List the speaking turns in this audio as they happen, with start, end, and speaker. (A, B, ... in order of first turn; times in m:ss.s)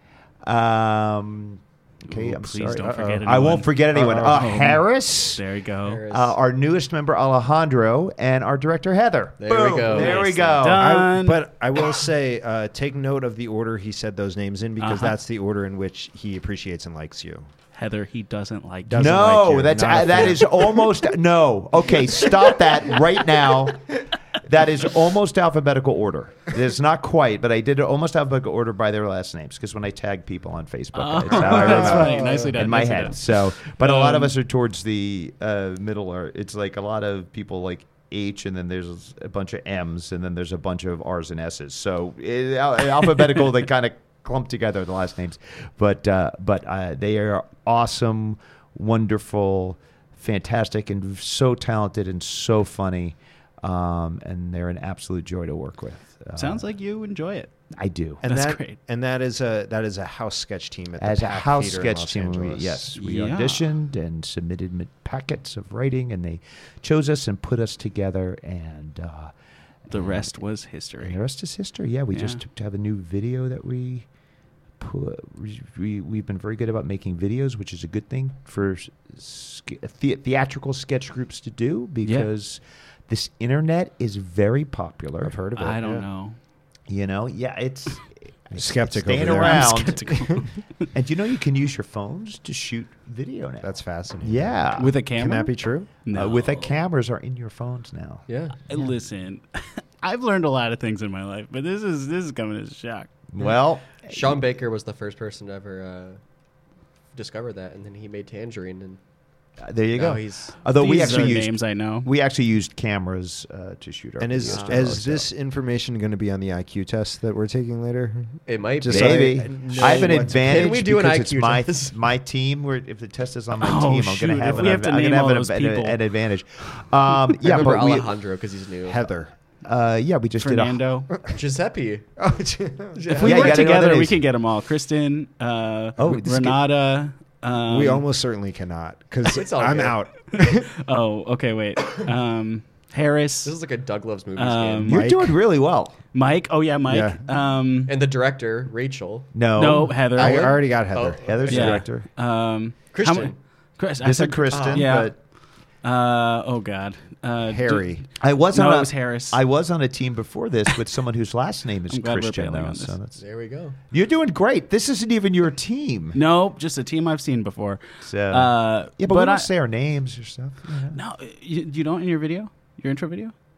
0:00.4-0:05.4 A
0:02.1-0:06.0 B
0:02.8-0:03.3 C
0:03.9-0:04.5 C
0:05.9-0:06.4 D
0:06.1-0:10.9 A
0:09.4-0:10.6 D
0:10.0-0:11.5 B
0:10.7-0:17.5 C
0:14.8-0:15.2 B
0:17.7-0:20.4 B
0:18.9-0:20.8 C
0:19.0-0:56.7 A
0:31.0-0:34.3 B
0:31.3-0:32.6 C
0:56.4-0:57.5 B
0:57.7-0:58.2 A
0:58.2-1:02.8 C
0:58.2-0:58.8 B
1:01.0-1:09.3 A
1:03.0-1:03.7 B
1:09.9-1:11.2 B
1:09.9-1:10.1 A
1:11.0-1:14.1 A
1:12.1-1:12.4 B
1:14.8-1:25.4 A
1:22.0-1:22.3 B
1:25.2-1:26.1 C
1:25.6-1:26.4 B
1:26.9-1:30.2 A
1:28.5-1:30.5 C
1:29.2-1:30.9 B
1:30.9-1:35.0 A
1:33.6-1:35.9 C
1:34.8-1:36.7 B
1:36.1-1:38.2 A
1:38.3-1:38.5 D
1:38.6-1:43.1 B
1:43.3-1:44.4 A
1:44.0-1:46.2 D
1:47.1-1:49.0 D
1:49.6-1:55.3 A
1:50.0-1:50.6 D
1:50.7-1:52.1 B
1:54.2-2:00.8 C
1:54.4-1:54.9 D
1:58.5-2:02.0 D
1:58.9-2:08.1 A
2:03.6-2:06.0 B
2:07.4-2:09.1 D
2:08.8-2:09.3 C
2:09.6-2:10.8 A
2:10.4-2:11.1 B
2:11.3-2:12.1 D
2:12.2-2:13.2 C
2:12.9-2:13.7 D
2:13.1-2:18.1 B
2:13.2-2:14.2 A
2:16.0-2:16.6 A
2:17.7-2:20.7 C
2:19.3-2:20.0 D
2:20.5-2:23.5 B
2:23.4-2:25.0 D
2:24.4-2:25.1 B
2:24.9-2:26.0 A
2:24.9-2:25.3 C
2:26.1-2:28.0 B
2:26.9-2:27.2 C
2:27.9-2:29.3 D
2:29.3-2:30.0 A
2:29.6-2:30.6 B
2:30.1-2:31.8 C
2:30.1-2:31.8 D
2:31.2-2:32.1 A
2:31.5-2:35.1 B
2:32.9-2:33.4 D
2:34.0-2:35.2 A
2:34.5-2:34.9 D
2:35.8-2:39.4 B
2:37.4-2:38.1 C
2:38.2-2:43.2 A
2:41.9-2:43.0 B
2:43.2-2:43.8 D
2:43.9-2:46.2 A
2:46.1-2:49.5 B
2:48.0-2:51.0 A
2:50.9-2:53.3 B